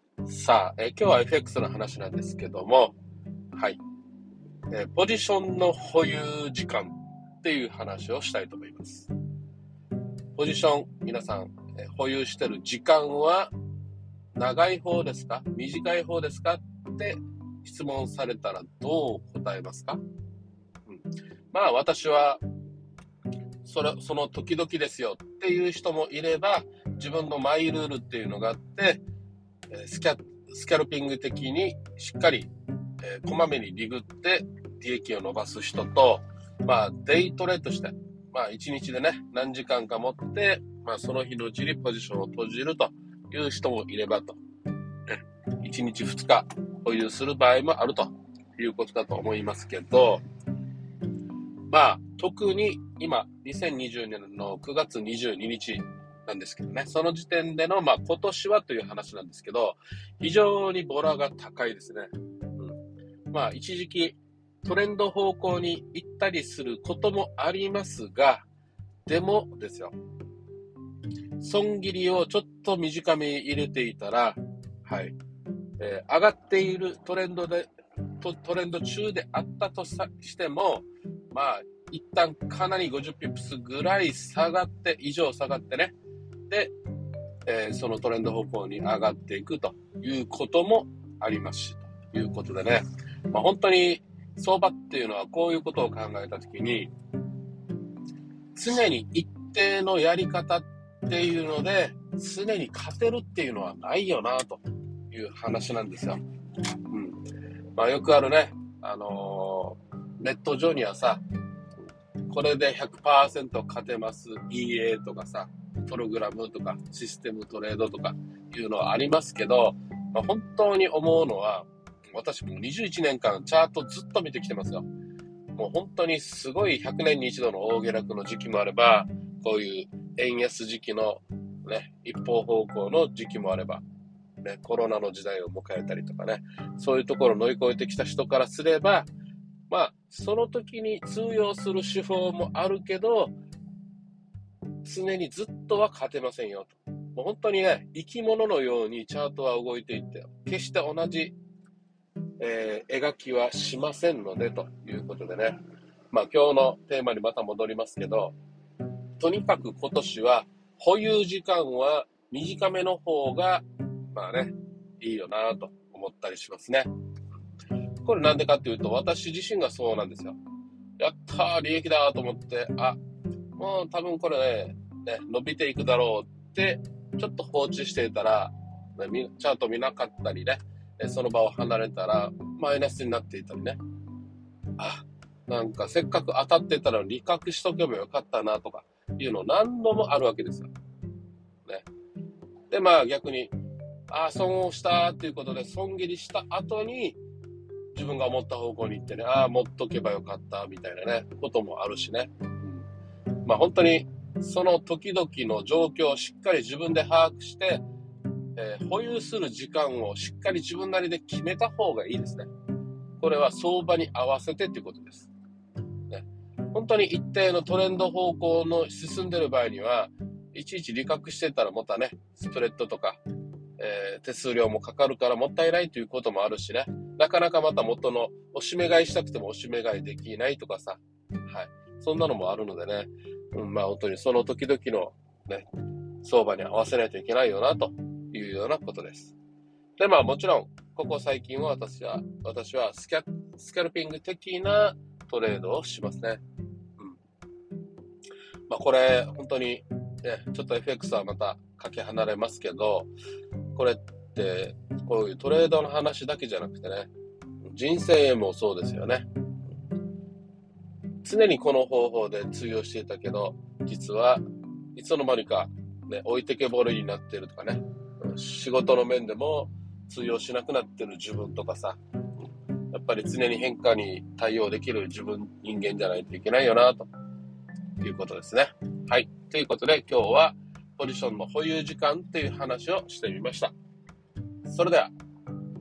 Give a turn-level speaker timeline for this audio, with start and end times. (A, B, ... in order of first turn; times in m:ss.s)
0:00.3-0:03.0 A
0:03.5-0:03.8 A
0:04.7-0:09.1 A
0:10.4-0:13.5 A
0:14.4-0:20.0 A
0:21.5-0:22.4 A
0:23.6-0:29.0 A
0:29.7-0:44.4 A
0:45.1-0:50.2 A
0:51.7-1:02.8 A
1:03.3-1:08.5 A
1:09.1-1:09.9 A
1:11.4-1:15.2 A
1:15.8-1:17.7 A
1:18.2-1:26.0 A
1:27.5-1:36.9 A
1:38.5-1:46.2 A
1:46.9-1:47.2 A
1:47.8-1:51.2 A
1:52.3-2:04.9 A
2:05.6-2:13.8 A
2:14.4-2:19.1 A
2:19.7-2:23.3 A
2:24.8-2:31.4 A
2:32.4-2:35.6 A
2:36.1-2:38.4 A
2:39.2-2:46.9 A
2:48.0-2:50.4 A
2:51.0-2:53.0 A
2:53.6-3:03.8 A
3:04.8-3:10.7 A
3:12.7-3:13.5 A
3:14.1-3:17.2 A
3:17.9-3:22.8 A
3:23.4-3:27.8 A
3:28.6-3:32.5 A
3:33.2-3:35.3 A
3:36.1-3:43.2 A
3:43.8-3:55.7 A
3:56.2-3:59.4 A
4:00.0-4:06.4 A
4:08.7-4:13.1 A
4:13.7-4:17.1 A
4:17.6-4:19.3 A
4:21.2-4:24.4 A
4:25.0-4:32.0 A
4:32.9-4:37.1 A
4:38.0-4:43.7 A
4:44.6-4:45.1 A